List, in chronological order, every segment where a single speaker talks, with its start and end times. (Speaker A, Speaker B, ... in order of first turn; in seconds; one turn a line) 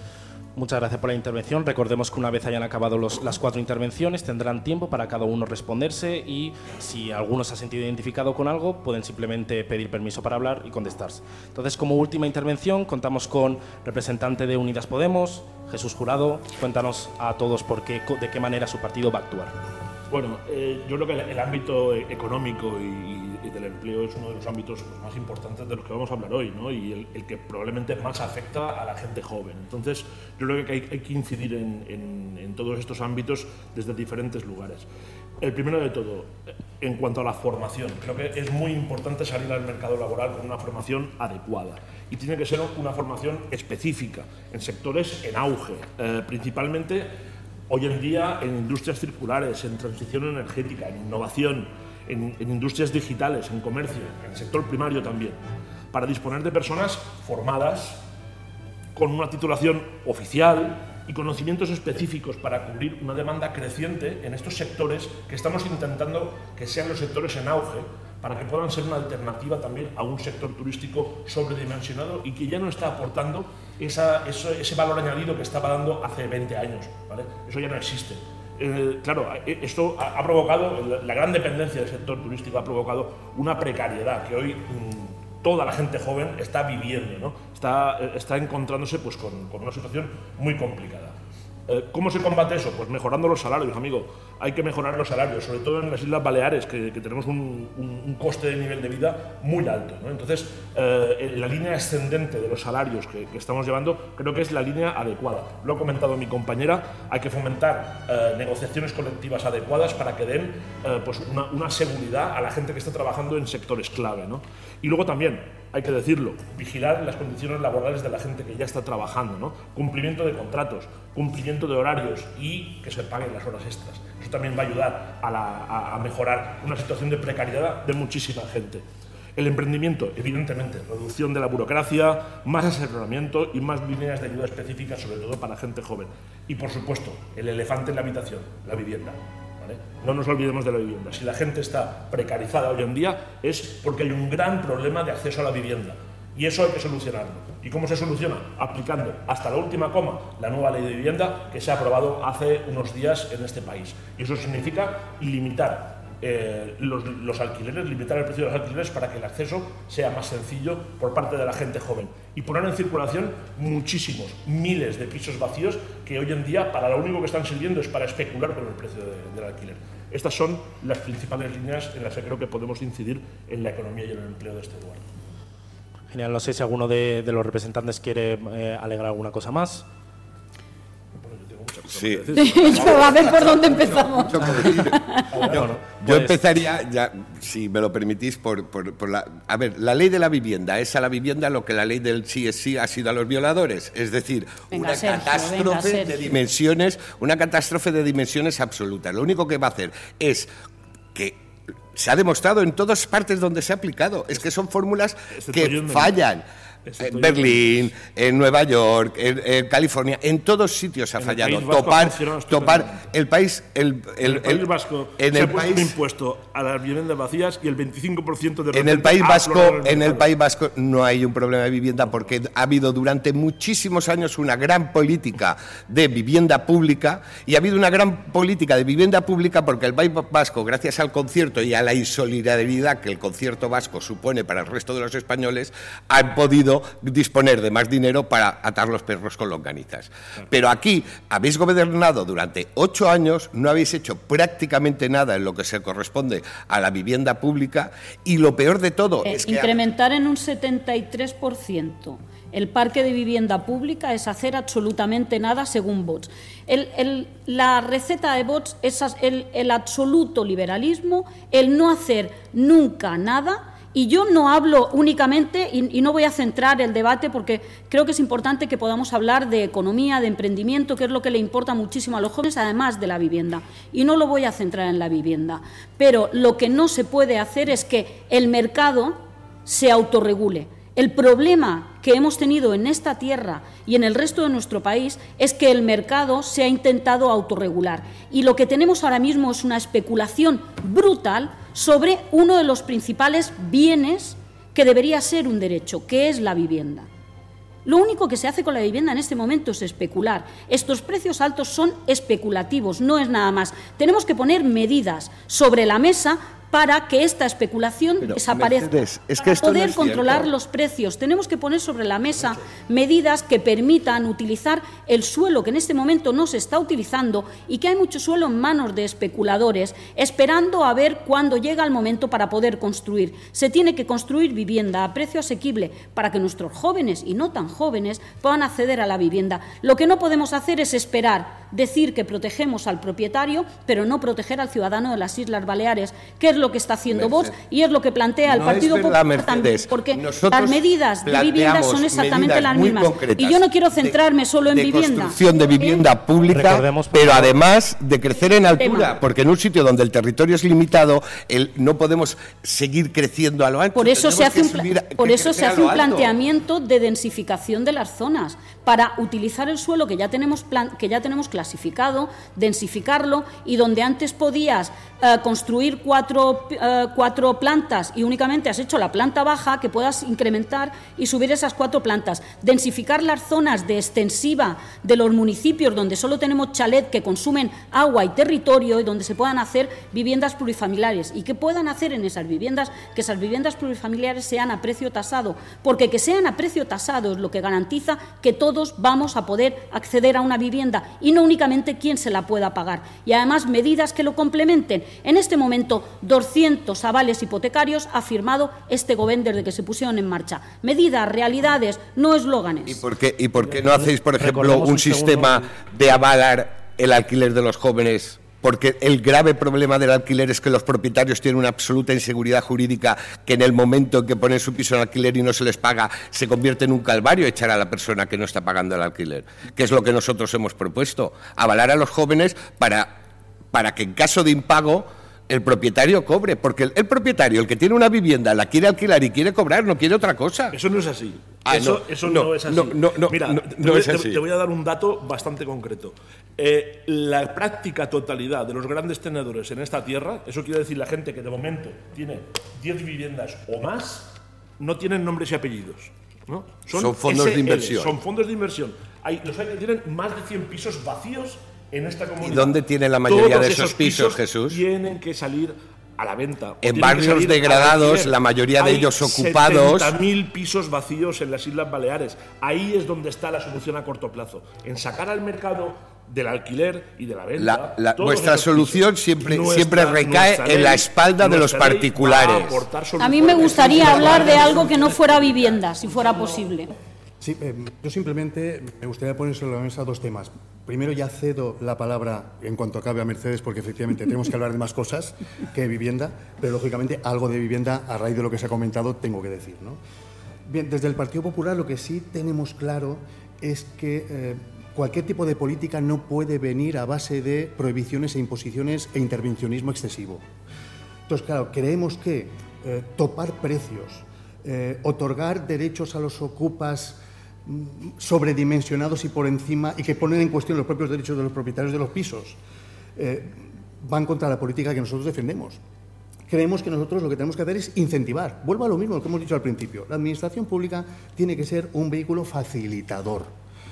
Speaker A: 0.6-19.6
Speaker B: 20.1-34.9
Speaker B: 35.4-47.1
Speaker B: 47.7-55.4
Speaker B: 55.9-58.0
Speaker B: 59.0-91.1
Speaker B: 91.7-128.8
Speaker B: 129.3-175.0
Speaker A: 176.1-179.8
Speaker B: 181.2-183.8
Speaker C: 181.9-200.5
Speaker D: 182.3-185.3
Speaker B: 185.3-185.8
Speaker A: 186.1-186.3
Speaker D: 194.7-196.3
Speaker C: 201.1-201.4
Speaker C: 201.9-206.4
Speaker B: 205.3-206.2
Speaker B: 206.8-207.9
Speaker C: 207.0-214.6
Speaker B: 211.2-213.0
Speaker B: 214.2-220.3
Speaker C: 215.2-215.9
Speaker C: 218.7-249.7
Speaker D: 249.2-297.1
Speaker D: 297.8-346.0
Speaker C: 308.2-310.5
Speaker C: 337.1-337.5
Speaker C: 338.5-344.2
Speaker C: 344.7-356.3
Speaker A: 346.5-347.6
Speaker D: 348.8-349.1
Speaker D: 353.9-403.0
Speaker C: 402.9-423.1
Speaker A: 403.7-405.7
Speaker C: 423.7-430.8
Speaker B: 430.7-475.2
Speaker C: 431.6-434.4
Speaker C: 446.9-448.1
Speaker C: 452.4-454.8
Speaker C: 456.8-460.1
Speaker C: 467.6-472.8
Speaker D: 473.2-476.9
Speaker E: 477.4-490.0
Speaker E: 490.7-500.4
Speaker E: 501.3-512.6
Speaker E: 513.1-515.8
Speaker E: 516.5-523.5